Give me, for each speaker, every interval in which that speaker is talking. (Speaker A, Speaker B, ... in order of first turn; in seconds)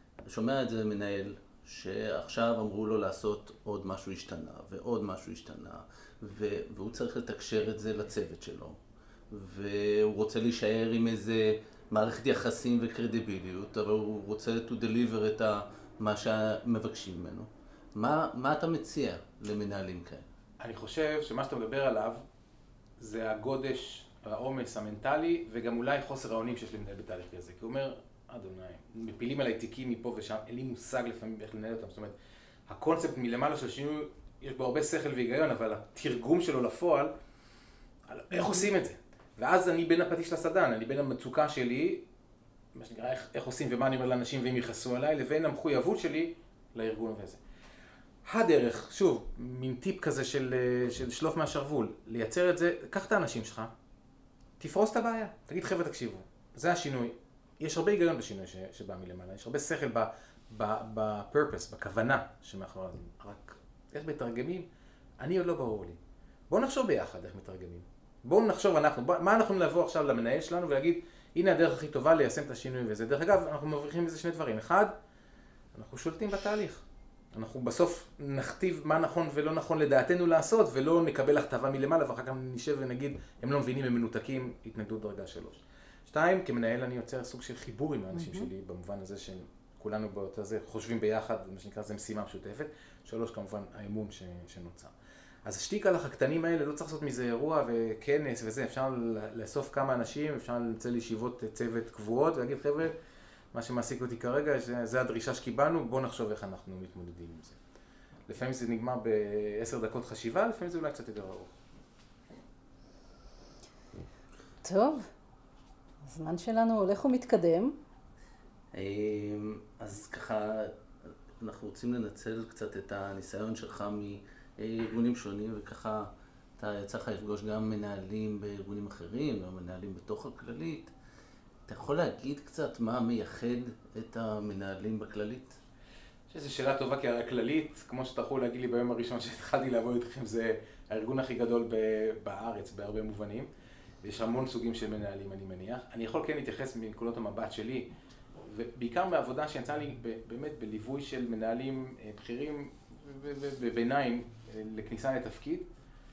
Speaker A: 0.3-8.8, 9.3-20.2, 118.7-120.8, 121.4-130.9, 131.7-135.6
Speaker B: 20.6-22.2, 23.0-32.1, 32.7-37.1, 38.1-42.0, 42.7-47.4, 48.2-53.7, 54.6-64.7, 65.2-66.0, 66.5-74.9, 75.7-94.9, 95.4-102.9, 103.5-107.6, 108.3-111.5, 136.3-143.5, 144.0-147.9, 148.4-155.7
Speaker C: 38.4-38.6, 88.2-88.5, 114.6-115.1, 116.0-117.8